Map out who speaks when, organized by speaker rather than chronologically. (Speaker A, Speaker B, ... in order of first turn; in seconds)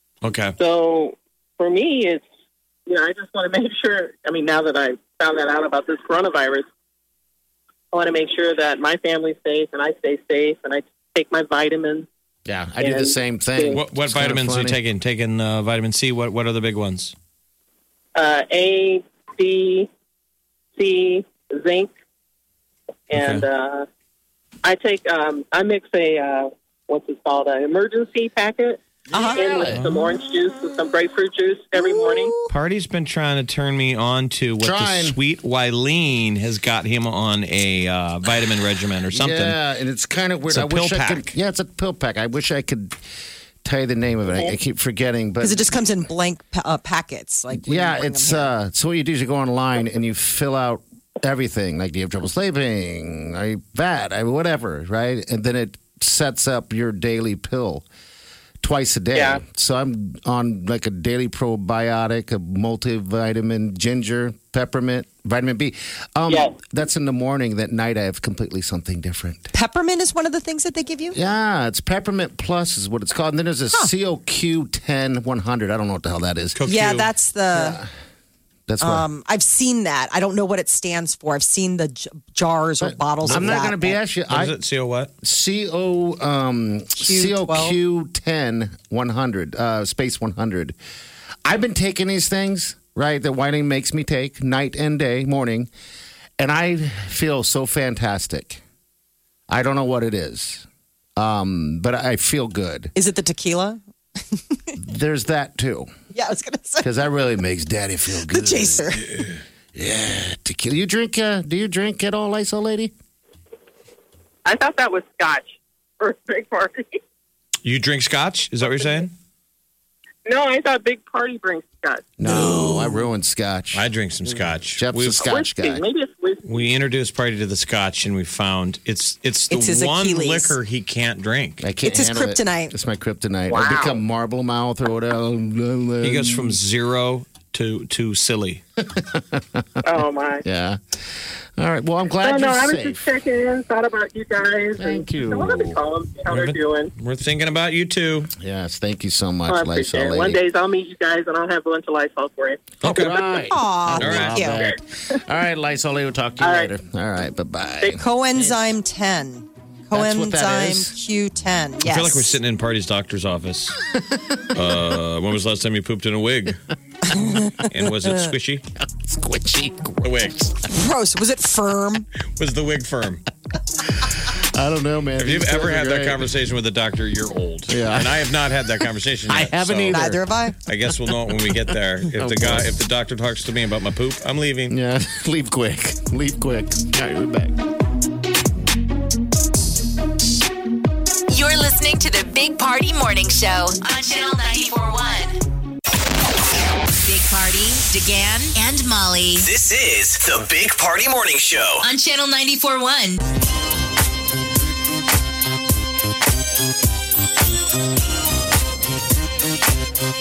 Speaker A: 0.2-0.6, 13.7-17.1, 23.1-23.4, 32.5-39.6, 40.5-41.3, 76.5-77.1, 83.2-83.5, 84.3-85.1, 109.1-109.4, 117.6-119.1, 123.7-125.2, 126.4-131.6, 136.0-138.6, 146.3-148.3, 152.8-153.2, 153.9-154.5, 161.8-163.8, 164.5-166.6, 167.6-168.6, 170.0-170.5, 172.4-173.2, 175.2-184.7
Speaker B: 0.6-2.2, 2.9-6.7, 7.9-12.1, 12.8-13.8, 18.1-19.9, 20.7-21.9, 23.1-23.9, 24.6-28.8, 29.3-32.4, 59.1-59.4, 66.3-66.5, 114.4-117.0, 118.6-119.0, 120.2-122.1, 125.2-126.7, 133.5-134.0, 139.8-140.4, 142.2-146.9, 149.5-152.7, 156.4-156.7
Speaker C: 12.4-14.8, 29.1-29.9, 34.6-35.2, 39.1-43.0, 43.6-45.8, 47.5-57.9, 58.6-69.5, 71.1-76.6, 77.5-77.9, 78.7-79.1, 82.8-84.5, 85.2-90.8, 91.5-95.7, 96.4-98.6, 99.5-102.9, 104.8-105.9, 106.8-109.0, 109.7-112.9, 122.2-125.8, 131.6-136.6, 138.8-139.7, 140.4-140.8, 141.6-143.1, 144.8-145.8, 148.4-150.4, 152.8-158.6, 159.9-160.9, 168.8-170.3, 174.3-176.3, 177.7-178.3, 179.3-180.2, 182.2-182.7, 184.7-187.5
Speaker D: 29.1-29.6, 32.2-32.5, 45.4-48.5, 69.5-71.2, 76.7-77.8, 78.8-84.0, 87.0-87.8, 102.9-103.8, 104.3-104.8, 106.1-106.9, 108.3-109.0, 129.5-130.6, 131.8-132.7, 153.5-154.6, 157.9-162.3, 167.1-167.6, 170.7-172.1, 179.9-180.5
Speaker E: 191.3-195.4, 196.9-199.5, 201.8-203.2
Speaker F: 199.4-201.9